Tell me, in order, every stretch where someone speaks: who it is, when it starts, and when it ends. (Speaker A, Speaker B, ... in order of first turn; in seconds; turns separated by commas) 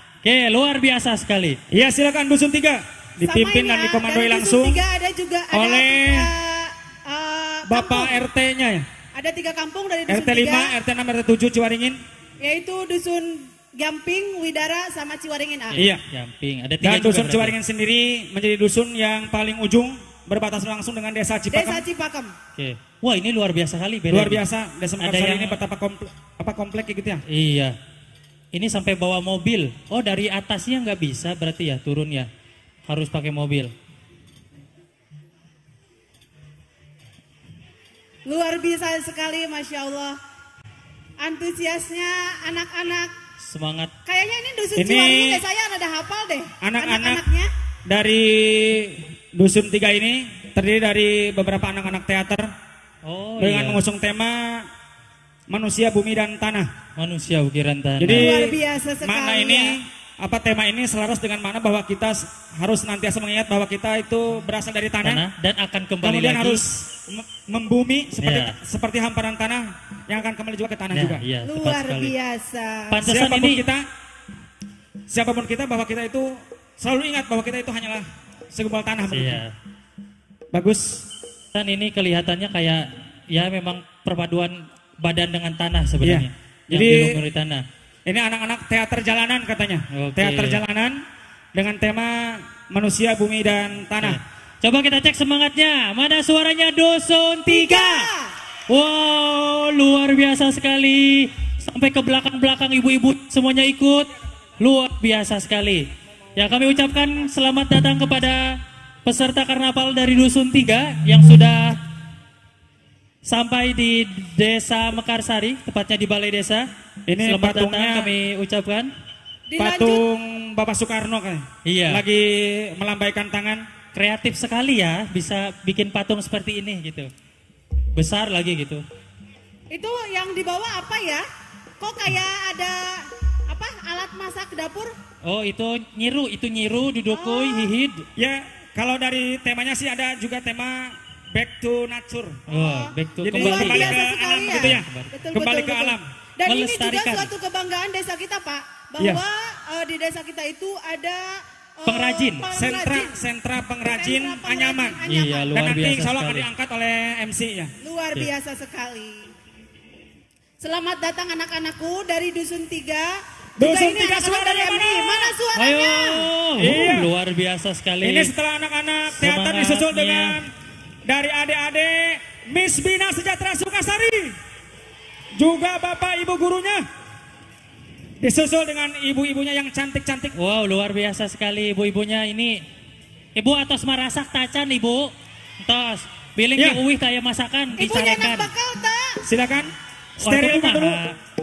Speaker A: 0.2-1.6, Speaker B: 1.7-4.8, Speaker C: 3.2-8.2, Speaker B: 5.5-6.3, Speaker B: 7.7-8.9, Speaker C: 9.1-10.7, Speaker B: 10.1-12.0, Speaker C: 12.4-15.8, Speaker A: 15.7-17.6, Speaker B: 16.8-21.8, Speaker C: 21.5-22.3, Speaker A: 22.6-24.4, Speaker B: 24.1-27.2, Speaker A: 25.0-25.6, Speaker A: 27.3-27.8, Speaker A: 28.5-32.3, Speaker A: 32.9-33.7, Speaker C: 38.2-40.2, Speaker C: 41.2-43.1, Speaker A: 43.4-43.9, Speaker C: 44.0-47.5, Speaker B: 44.8-45.4, Speaker B: 46.6-47.2, Speaker B: 47.9-52.5, Speaker A: 53.0-53.8, Speaker B: 53.4-54.6, Speaker B: 55.5-56.7, Speaker A: 57.0-58.3, Speaker B: 58.0-65.2, Speaker C: 58.1-59.8, Speaker A: 65.0-66.7, Speaker B: 66.0-71.2, Speaker A: 68.2-68.5, Speaker A: 70.9-72.1, Speaker C: 71.4-73.0, Speaker A: 72.9-73.6, Speaker B: 73.0-73.9, Speaker B: 75.1-79.4, Speaker A: 79.1-79.5, Speaker B: 80.5-81.0, Speaker A: 81.5-87.6, Speaker B: 86.0-87.2, Speaker B: 88.1-91.0, Speaker A: 89.9-90.6, Speaker B: 91.5-94.2, Speaker A: 94.0-98.0, Speaker C: 97.5-98.3, Speaker A: 98.7-108.5, Speaker A: 109.0-111.8, Speaker A: 113.2-116.7, Speaker B: 117.1-118.1, Speaker A: 117.2-118.9, Speaker C: 119.5-120.0, Speaker B: 119.6-123.6, Speaker A: 121.7-122.0, Speaker A: 123.9-127.1, Speaker A: 128.0-128.8, Speaker C: 129.7-131.2, Speaker C: 131.8-134.9, Speaker A: 135.2-138.1, Speaker C: 137.1-137.7, Speaker B: 138.2-142.4, Speaker A: 142.5-144.0, Speaker C: 142.5-153.2, Speaker B: 143.2-146.1, Speaker A: 144.6-145.1, Speaker A: 146.4-147.3, Speaker A: 151.8-152.5, Speaker B: 152.5-155.0, Speaker C: 153.8-155.5, Speaker A: 155.1-156.5, Speaker B: 155.5-157.7, Speaker C: 157.8-159.3, Speaker C: 160.6-166.3, Speaker B: 163.6-165.3, Speaker A: 165.6-168.3, Speaker B: 166.6-167.1, Speaker B: 168.0-170.5, Speaker A: 169.1-170.3, Speaker B: 171.1-174.3, Speaker B: 175.3-176.8, Speaker B: 178.2-180.3, Speaker A: 180.3-182.6, Speaker A: 183.3-188.5, Speaker B: 186.6-186.8, Speaker C: 187.8-189.2, Speaker B: 189.2-191.0, Speaker A: 190.2-191.1